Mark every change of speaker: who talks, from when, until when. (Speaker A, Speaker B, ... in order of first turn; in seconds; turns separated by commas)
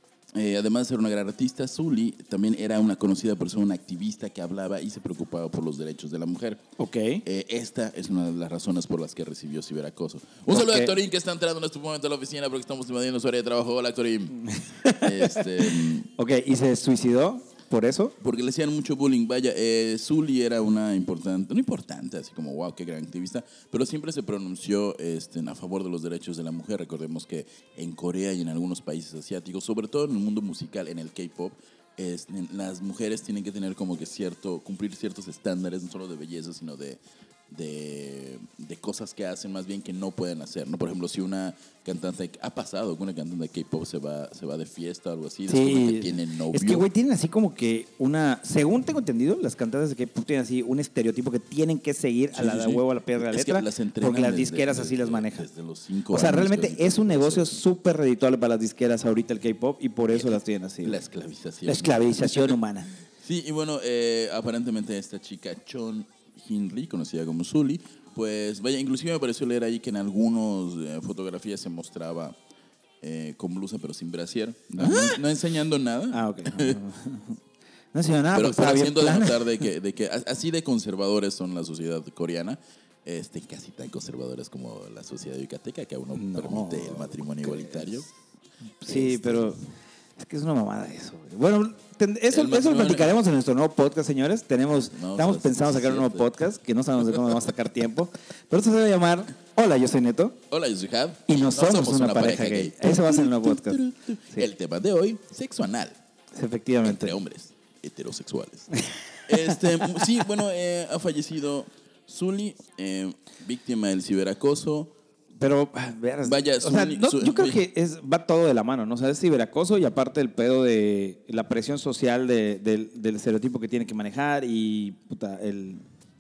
Speaker A: 0.3-6.6, Speaker B: 6.8-7.2, Speaker A: 7.2-16.1, Speaker B: 10.5-10.9, Speaker B: 14.4-18.1, Speaker A: 18.2-46.9, Speaker B: 45.5-55.5, Speaker A: 52.3-57.6, Speaker B: 56.1-61.0, Speaker A: 60.1-62.6, Speaker B: 61.6-62.9, Speaker A: 63.2-72.4, Speaker A: 73.0-76.8, Speaker B: 74.8-75.2, Speaker B: 76.1-77.4, Speaker B: 77.9-79.6, Speaker A: 78.3-88.1, Speaker B: 86.1-88.0, Speaker B: 88.8-89.6, Speaker A: 88.8-89.6, Speaker B: 90.2-100.4, Speaker A: 92.3-93.2, Speaker A: 94.9-96.3, Speaker A: 97.1-97.4, Speaker A: 100.5-106.0, Speaker B: 101.3-104.5, Speaker B: 106.3-107.2, Speaker A: 106.8-108.7, Speaker A: 109.3-114.9, Speaker B: 109.3-110.0, Speaker B: 115.4-125.8, Speaker A: 116.2-117.6